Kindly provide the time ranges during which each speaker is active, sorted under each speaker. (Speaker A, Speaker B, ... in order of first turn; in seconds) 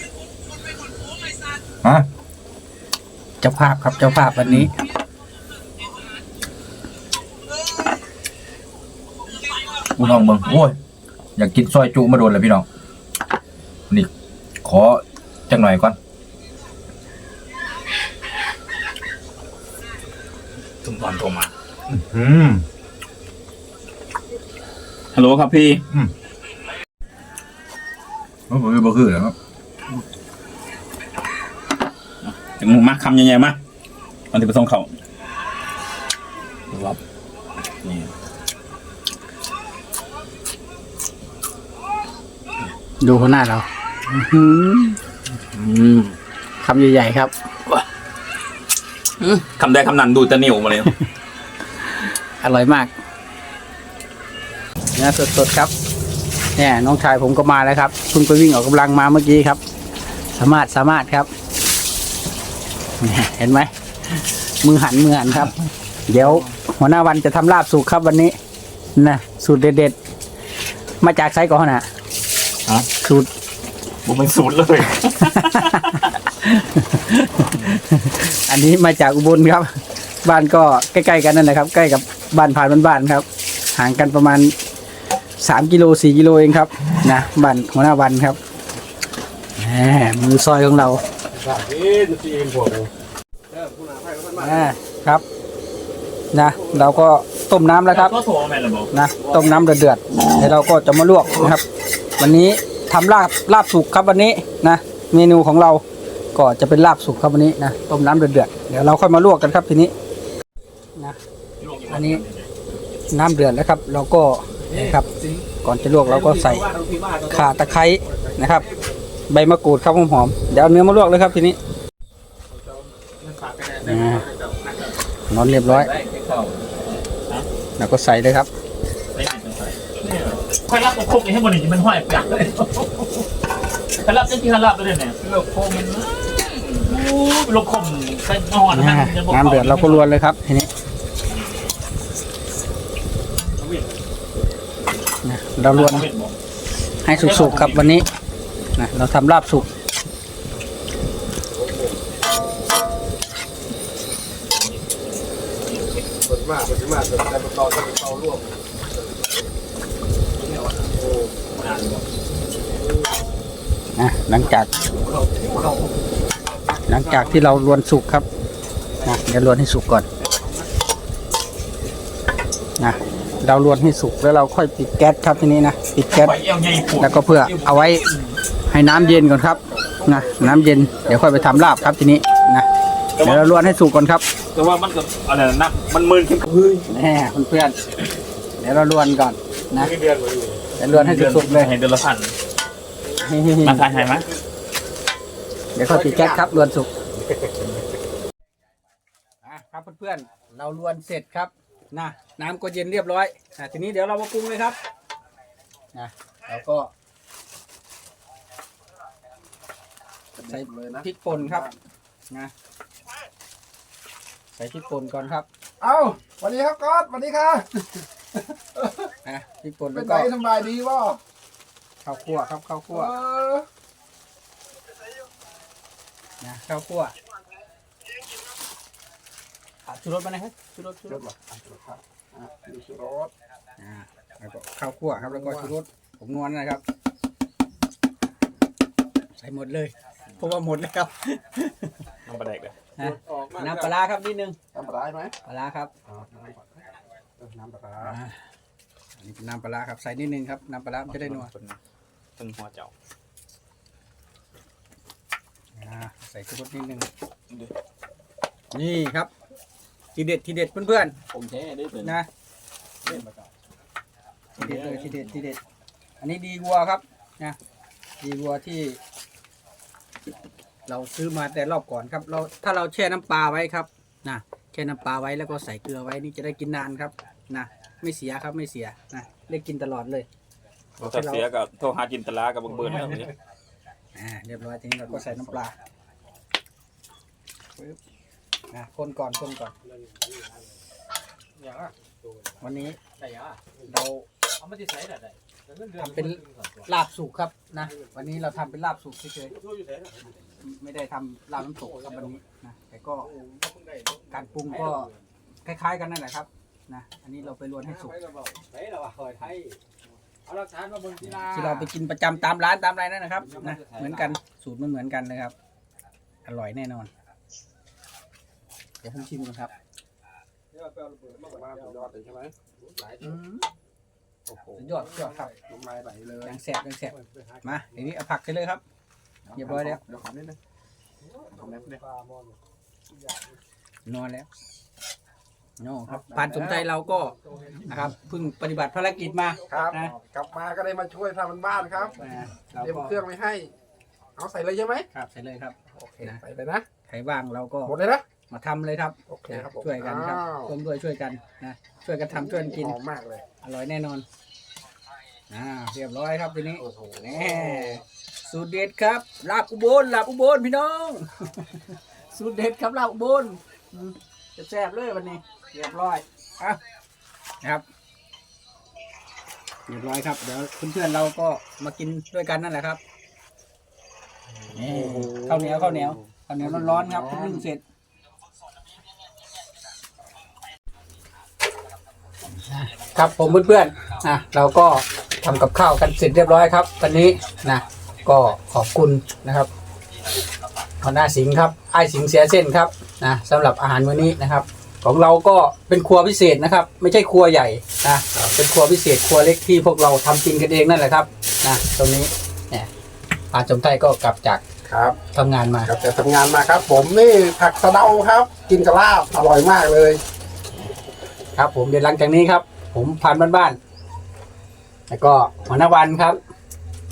Speaker A: 3.4-4.7, 43.0-45.0, 46.6-47.8, 52.4-52.9, 55.0-55.7, 56.6-59.6, 60.3-61.3, 63.0-65.5, 66.1-68.3, 69.0-70.0, 71.0-71.9, 73.0-73.3, 75.4-75.8, 76.4-79.7, 80.2-84.5, 85.4-88.4, 89.6-91.0, 94.4-95.2, 96.3-98.2, 98.9-101.7, 102.2-105.8, 106.3-109.9, 111.9-112.2, 113.1-115.1, 115.6-116.7, 117.3-118.7, 119.3-121.6, 123.8-124.2, 125.3-125.9, 127.8-128.5, 138.7-140.7, 145.2-146.1, 147.0-148.1, 148.8-149.7, 164.0-164.7, 166.9-168.3, 169.0-170.1, 172.8-176.4, 177.0-178.0, 178.7-182.7, 183.2-184.2, 186.9-187.8, 188.6-189.9, 190.8-191.7, 193.2-193.9, 195.8-196.9, 199.4-204.8, 205.9-206.9, 210.4-211.7, 214.5-215.5, 219.2-220.3, 222.0-223.1, 226.4-227.1, 229.9-231.2, 233.8-236.8, 239.4-242.1, 243.0-244.6, 245.4-245.9, 248.0-248.4, 249.2-251.5, 255.8-257.1, 258.7-259.3, 260.1-261.2, 262.0-262.3, 264.6-265.6, 266.2-267.6, 268.2-269.0, 270.9-280.3, 281.0-281.4, 284.1-285.7, 288.7-289.7, 292.6-293.0, 293.9-294.3, 295.9-299.6, 300.6-303.3, 304.3-305.1, 305.6-308.2, 311.4-315.5, 316.4-317.1, 319.0-319.7, 323.2-323.6, 324.8-325.5, 326.4-328.8, 329.5-330.0, 334.1-334.5, 335.8-340.1, 342.2-343.2, 345.1-346.4, 347.1-347.9, 348.5-353.0, 353.6-354.2, 355.5-366.8, 369.9-373.0, 374.9-377.8, 382.6-389.7, 391.0-402.9, 403.5-404.6, 405.3-405.9, 411.6-413.8, 415.1-416.4
Speaker B: 9.9-10.8, 11.4-12.7, 14.6-16.0, 21.9-22.6, 28.5-29.4
Speaker C: 20.8-21.5, 25.1-25.8, 32.2-33.6, 34.3-34.9, 36.7-37.0, 37.8-38.1, 45.5-46.1, 49.4-50.9, 74.0-76.1, 97.8-98.9, 111.6-112.5, 114.7-115.4, 116.0-117.7, 123.2-125.0, 125.7-127.5, 129.1-133.2, 134.0-140.1, 145.7-146.3, 147.1-148.0, 154.6-155.0, 161.6-162.1, 176.1-178.3, 183.2-183.7, 184.5-186.9, 189.8-192.3, 193.6-194.3, 242.2-242.8, 251.1-251.8, 252.4-252.9, 261.3-262.2, 264.6-265.2, 281.0-283.3
Speaker D: 91.4-92.9, 93.5-94.7, 156.2-159.1, 160.9-161.3, 165.2-165.6, 179.8-181.9, 196.1-196.3, 210.4-211.7, 215.8-218.1, 218.8-219.1, 219.9-221.2, 222.9-223.7, 231.1-233.3, 235.2-235.7, 243.0-243.9, 244.7-245.3, 246.1-246.8, 247.4-248.2, 291.6-291.9, 321.3-322.6, 324.5-326.6, 329.5-330.6, 331.5-332.0, 336.1-336.9, 339.7-343.7, 344.4-345.1, 345.9-346.9, 347.9-348.2, 349.3-350.7, 352.3-353.5, 356.8-358.0, 374.8-376.1, 376.6-377.6, 404.9-405.2, 405.9-410.2
Speaker E: 293.2-293.5, 294.7-295.3, 299.7-300.2, 303.4-304.2, 308.4-309.7, 310.5-311.0, 320.8-321.3